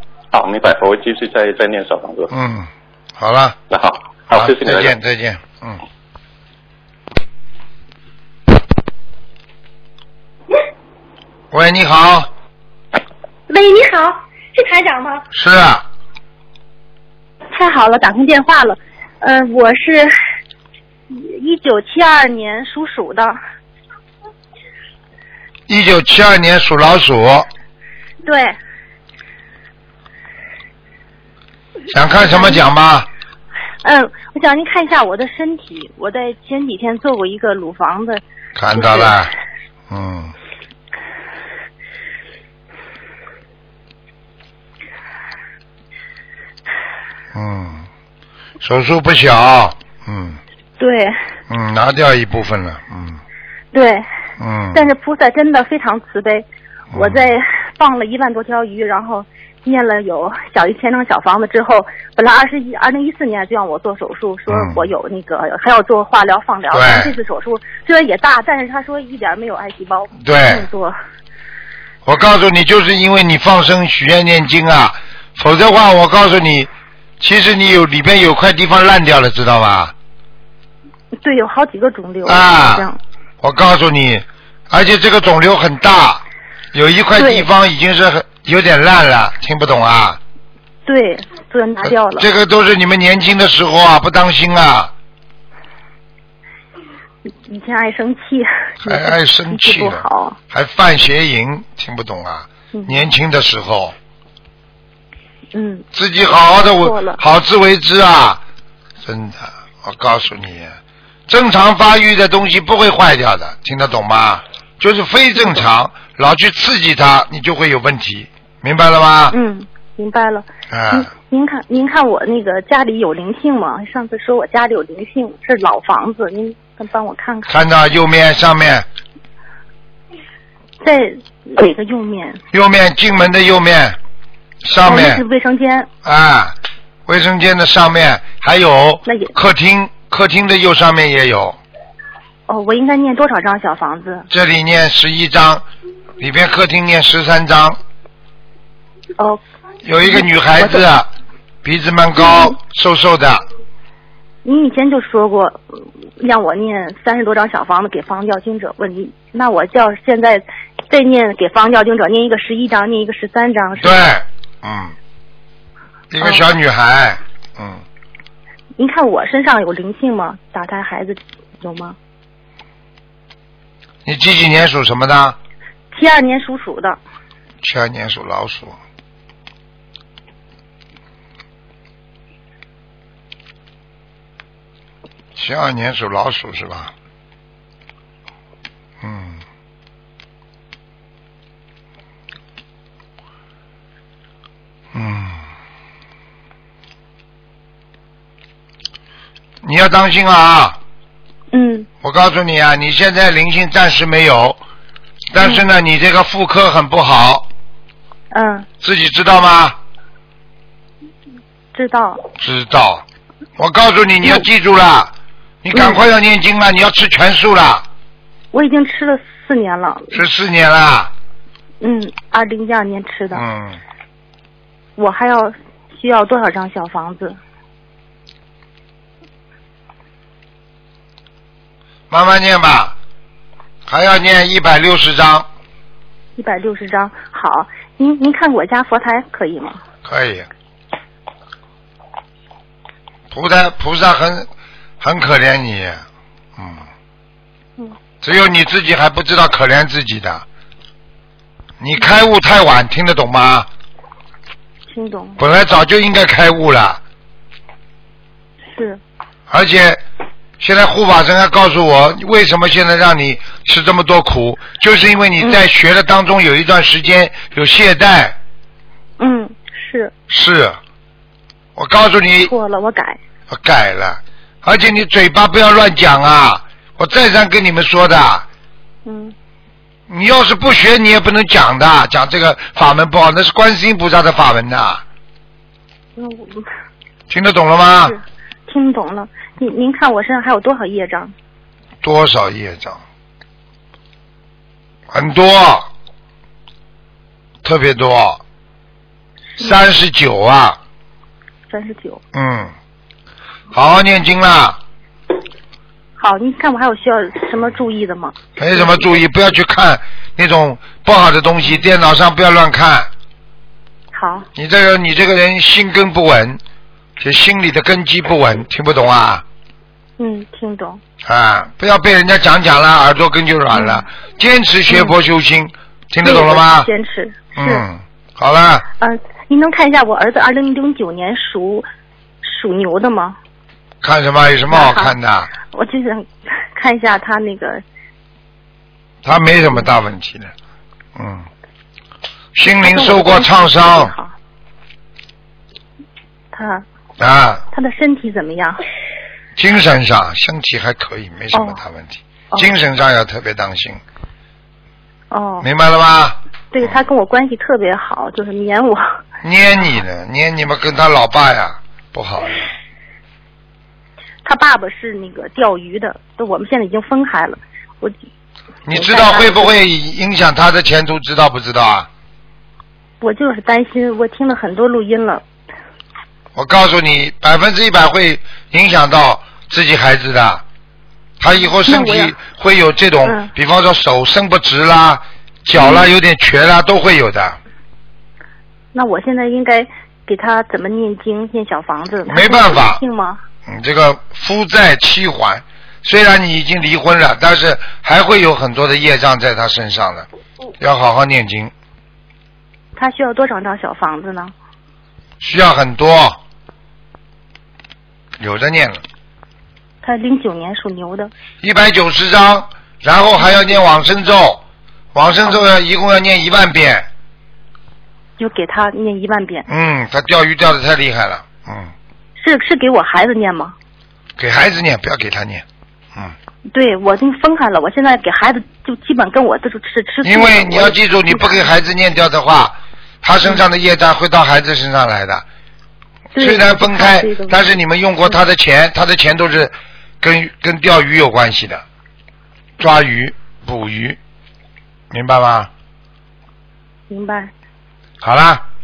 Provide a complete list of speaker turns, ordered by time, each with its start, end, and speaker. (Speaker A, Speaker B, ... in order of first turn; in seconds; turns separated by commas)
Speaker A: 0.3-2.3, Speaker B: 2.3-3.6, Speaker A: 3.7-4.9, Speaker B: 4.3-5.8, Speaker B: 11.5-12.3, Speaker C: 13.5-15.2, Speaker B: 15.3-15.9, Speaker C: 17.5-20.1, Speaker C: 21.1-23.4, Speaker B: 25.7-27.5, Speaker C: 28.2-28.6, Speaker B: 31.9-33.1, Speaker C: 32.2-32.6, Speaker C: 33.8-38.2, Speaker B: 38.5-39.3, Speaker C: 38.7-39.1, Speaker B: 39.9-40.3, Speaker B: 47.3-47.9, Speaker B: 48.6-50.4, Speaker C: 50.8-51.1, Speaker B: 51.5-53.2, Speaker C: 53.7-54.1, Speaker B: 54.4-54.9, Speaker C: 54.7-71.0, Speaker B: 56.9-57.2, Speaker B: 64.5-64.9, Speaker B: 66.7-67.2, Speaker B: 70.2-70.7, Speaker B: 72.0-76.7, Speaker B: 77.2-79.9, Speaker C: 81.2-83.0, Speaker B: 82.2-82.9, Speaker B: 83.4-86.2, Speaker B: 86.7-90.2, Speaker C: 87.2-87.5, Speaker C: 90.9-92.3, Speaker B: 91.8-94.9, Speaker C: 97.5-100.4, Speaker B: 98.8-104.0, Speaker C: 102.7-103.1, Speaker C: 105.5-105.9, Speaker B: 105.9-108.4, Speaker C: 106.8-107.2, Speaker B: 109.0-110.8, Speaker B: 111.3-119.4, Speaker C: 119.3-127.6, Speaker B: 120.7-121.1, Speaker B: 127.5-128.9, Speaker C: 130.8-132.4, Speaker B: 132.5-134.0, Speaker B: 134.6-135.2, Speaker C: 134.8-135.9, Speaker B: 136.0-141.6, Speaker C: 139.1-139.3, Speaker C: 142.5-144.3, Speaker B: 144.3-145.7, Speaker B: 146.2-147.8, Speaker B: 149.8-151.1, Speaker C: 150.0-150.8, Speaker B: 151.6-153.4, Speaker C: 152.2-152.5, Speaker C: 154.4-155.6, Speaker C: 156.2-164.1, Speaker B: 163.8-164.9, Speaker B: 166.1-167.8, Speaker C: 166.2-166.5, Speaker C: 168.8-172.0, Speaker B: 174.1-175.4, Speaker C: 175.9-177.0, Speaker B: 177.6-178.8, Speaker B: 185.3-186.9, Speaker B: 189.0-189.4, Speaker B: 194.9-195.4, Speaker B: 199.6-200.8, Speaker C: 201.5-201.9, Speaker B: 202.0-204.6, Speaker B: 205.3-207.5, Speaker C: 205.4-205.7, Speaker C: 208.3-208.7, Speaker B: 208.8-209.8, Speaker C: 211.7-212.2, Speaker B: 212.4-213.0, Speaker B: 213.6-215.1, Speaker B: 215.6-217.8, Speaker C: 215.7-216.0, Speaker C: 218.5-220.2, Speaker B: 220.1-221.1, Speaker C: 221.8-223.4, Speaker B: 223.3-223.8, Speaker C: 224.9-227.4, Speaker B: 232.1-232.9, Speaker B: 233.9-235.5, Speaker C: 236.4-239.8, Speaker B: 240.0-240.5, Speaker B: 243.3-244.5, Speaker B: 245.0-246.0, Speaker B: 246.6-246.9, Speaker B: 248.2-250.4, Speaker B: 251.8-253.7, Speaker C: 254.9-255.4, Speaker B: 255.4-257.0, Speaker C: 258.7-259.0, Speaker B: 259.5-260.0, Speaker B: 260.6-268.4, Speaker C: 269.2-270.1, Speaker B: 270.3-270.8, Speaker B: 271.8-272.5, Speaker C: 272.4-273.2, Speaker B: 273.5-278.4, Speaker C: 279.1-279.3, Speaker B: 280.1-285.0, Speaker C: 286.2-286.7, Speaker B: 287.3-288.2, Speaker C: 288.1-291.3, Speaker B: 292.0-293.0, Speaker B: 295.1-295.9, Speaker B: 297.6-298.4, Speaker B: 299.6-300.8, Speaker C: 301.7-302.2, Speaker B: 302.3-302.7, Speaker B: 303.7-304.8, Speaker C: 306.2-309.2, Speaker B: 308.6-313.1, Speaker C: 314.1-314.5, Speaker B: 314.6-316.6, Speaker B: 317.2-319.4, Speaker C: 320.2-321.0, Speaker B: 321.2-326.9, Speaker C: 323.7-324.1, Speaker C: 326.2-327.8, Speaker B: 327.6-328.9, Speaker C: 329.0-331.9, Speaker C: 332.4-333.4, Speaker B: 334.0-335.5, Speaker C: 334.7-335.1, Speaker C: 335.7-337.8, Speaker B: 339.2-340.5, Speaker B: 341.2-341.5, Speaker B: 342.6-344.1, Speaker C: 342.7-344.3, Speaker C: 346.5-346.8, Speaker B: 347.2-347.6, Speaker C: 347.7-348.8, Speaker B: 349.6-354.0, Speaker C: 351.5-351.8, Speaker C: 355.3-355.7, Speaker B: 355.6-357.0, Speaker C: 356.7-359.2, Speaker B: 359.4-362.7, Speaker C: 364.4-368.1, Speaker B: 368.9-372.1, Speaker C: 368.9-369.8, Speaker C: 373.2-375.4, Speaker B: 376.6-380.6, Speaker B: 381.4-387.6, Speaker C: 381.6-382.3, Speaker C: 383.2-383.5, Speaker C: 385.8-386.1, Speaker C: 388.9-393.4, Speaker B: 392.3-393.0, Speaker B: 393.7-400.3, Speaker B: 400.8-401.7, Speaker C: 402.9-404.5, Speaker B: 405.4-406.4, Speaker B: 408.4-409.0, Speaker C: 410.0-411.3, Speaker B: 411.6-414.6, Speaker B: 415.1-417.1, Speaker C: 418.4-419.7, Speaker B: 419.7-421.9, Speaker C: 422.4-423.8, Speaker B: 424.4-425.6, Speaker C: 426.7-431.7, Speaker B: 430.2-435.4, Speaker C: 436.3-437.7, Speaker B: 436.4-441.8, Speaker B: 442.8-444.2, Speaker B: 445.1-445.7, Speaker C: 447.1-447.5, Speaker B: 448.2-448.6